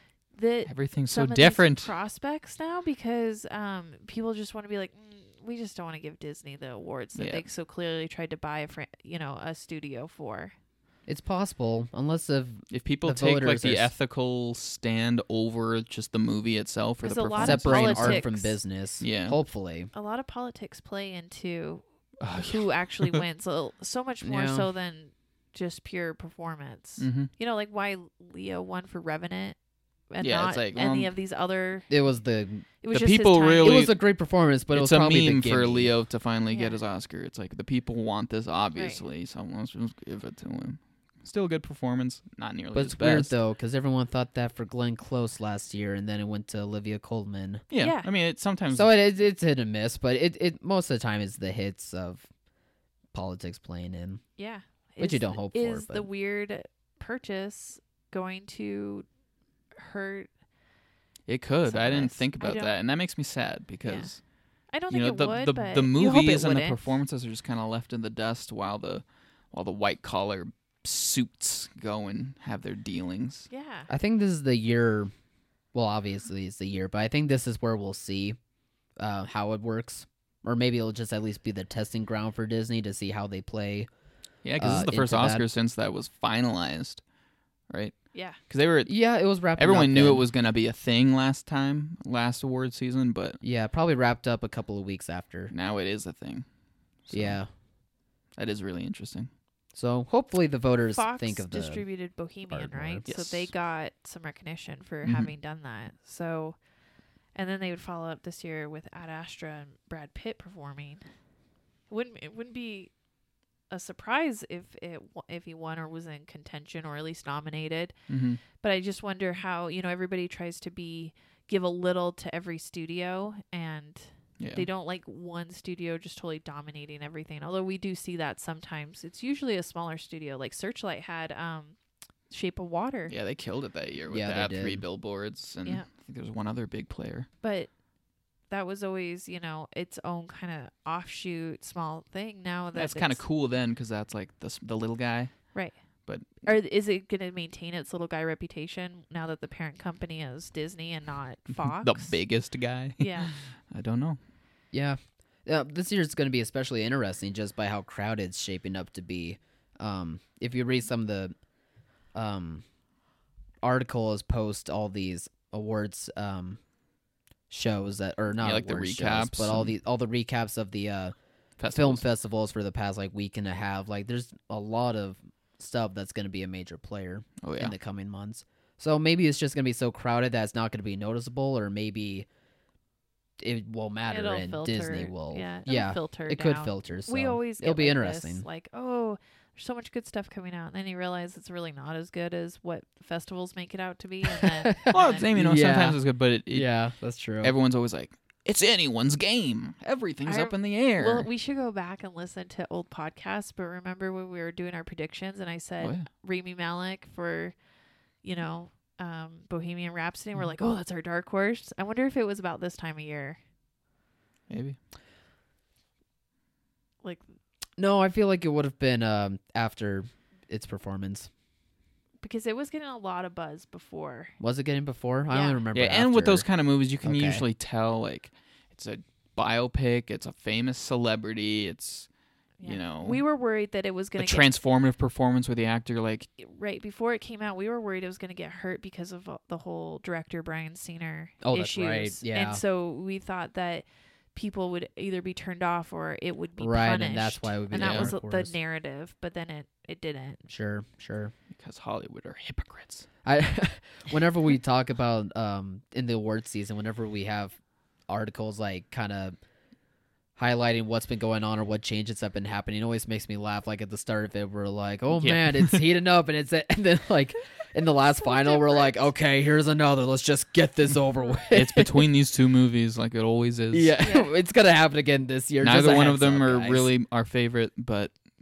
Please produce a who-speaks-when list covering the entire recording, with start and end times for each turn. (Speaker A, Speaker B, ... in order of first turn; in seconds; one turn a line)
Speaker A: 0.3-10.5
Speaker B: 0.7-1.9
Speaker B: 7.2-7.4
Speaker C: 11.1-13.9
Speaker B: 12.7-18.2
Speaker A: 17.0-18.6
Speaker C: 17.4-19.9
Speaker B: 19.0-19.4
Speaker A: 19.9-29.6
Speaker B: 22.2-23.2
Speaker C: 24.2-24.7
Speaker B: 27.0-27.3
Speaker A: 30.1-31.9
Speaker B: 30.2-31.1
Speaker C: 31.9-32.6
Speaker A: 32.8-33.8
Speaker B: 32.9-33.9
Speaker C: 33.6-35.9
Speaker B: 34.7-43.3
Speaker A: 36.5-36.8
Speaker A: 38.7-39.0
Speaker C: 42.7-47.6
Speaker B: 47.7-48.9
Speaker A: 47.8-48.1
Speaker C: 48.7-52.3
Speaker C: 53.1-54.2
Speaker A: 54.4-59.0
Speaker C: 55.0-56.0
Speaker A: 59.8-60.3
Speaker B: 61.3-64.2
Speaker A: 61.7-62.7
Speaker A: 63.8-64.1
Speaker A: 64.7-66.9
Speaker B: 64.9-73.5
Speaker A: 73.5-73.9
Speaker C: 73.9-75.1
Speaker C: 75.7-78.4
Speaker C: 79.0-83.9
Speaker B: 84.4-87.0
Speaker C: 84.6-85.4
Speaker B: 87.7-88.0
Speaker B: 88.5-88.9
Speaker C: 88.9-90.3
Speaker B: 89.5-93.4
Speaker C: 93.4-95.5
Speaker B: 95.5-96.4
Speaker B: 97.0-97.4
Speaker C: 97.1-97.5
Speaker B: 98.4-99.3
Speaker C: 99.7-101.8
Speaker A: 100.9-106.6
Speaker C: 102.5-103.0
Speaker B: 103.0-103.5
Speaker B: 105.0-105.3
Speaker A: 107.3-111.0
Speaker A: 111.9-112.9
Speaker A: 113.7-117.9
Speaker B: 118.1-118.4
Speaker A: 118.5-131.8
Speaker B: 124.4-124.7
Speaker A: 132.3-133.1
Speaker B: 133.1-137.3
Speaker C: 134.1-134.8
Speaker A: 137.4-137.7
Speaker A: 138.5-143.2
Speaker B: 142.7-145.5
Speaker B: 146.1-146.4
Speaker A: 146.4-152.2
Speaker B: 151.6-154.2
Speaker A: 153.0-153.3
Speaker C: 154.7-161.3
Speaker C: 162.1-162.6
Speaker C: 163.6-166.6
Speaker C: 167.5-171.1
Speaker B: 168.4-169.7
Speaker B: 171.6-172.0
Speaker C: 171.7-182.3
Speaker B: 177.4-177.7
Speaker C: 183.4-188.4
Speaker A: 184.1-195.2
Speaker C: 194.3-196.0
Speaker B: 194.9-196.7
Speaker C: 196.5-197.5
Speaker B: 197.4-201.3
Speaker A: 200.2-207.5
Speaker B: 205.8-206.1
Speaker A: 208.2-213.4
Speaker B: 214.5-214.8
Speaker C: 217.8-221.3
Speaker A: 222.2-224.3
Speaker C: 224.4-226.4
Speaker A: 225.3-225.6
Speaker B: 225.7-232.1
Speaker C: 227.0-227.4
Speaker A: 232.6-234.4
Speaker B: 232.6-233.2
Speaker B: 234.2-236.3
Speaker A: 236.4-250.4
Speaker C: 241.4-242.6
Speaker C: 246.6-248.5
Speaker B: 247.7-248.1
Speaker C: 250.4-251.3
Speaker B: 251.5-253.1
Speaker C: 253.2-257.5
Speaker C: 258.1-259.4
Speaker C: 260.4-272.1
Speaker B: 265.1-265.8
Speaker A: 268.2-269.0
Speaker B: 271.5-273.9
Speaker C: 273.7-276.9
Speaker A: 274.0-274.3
Speaker B: 275.6-278.1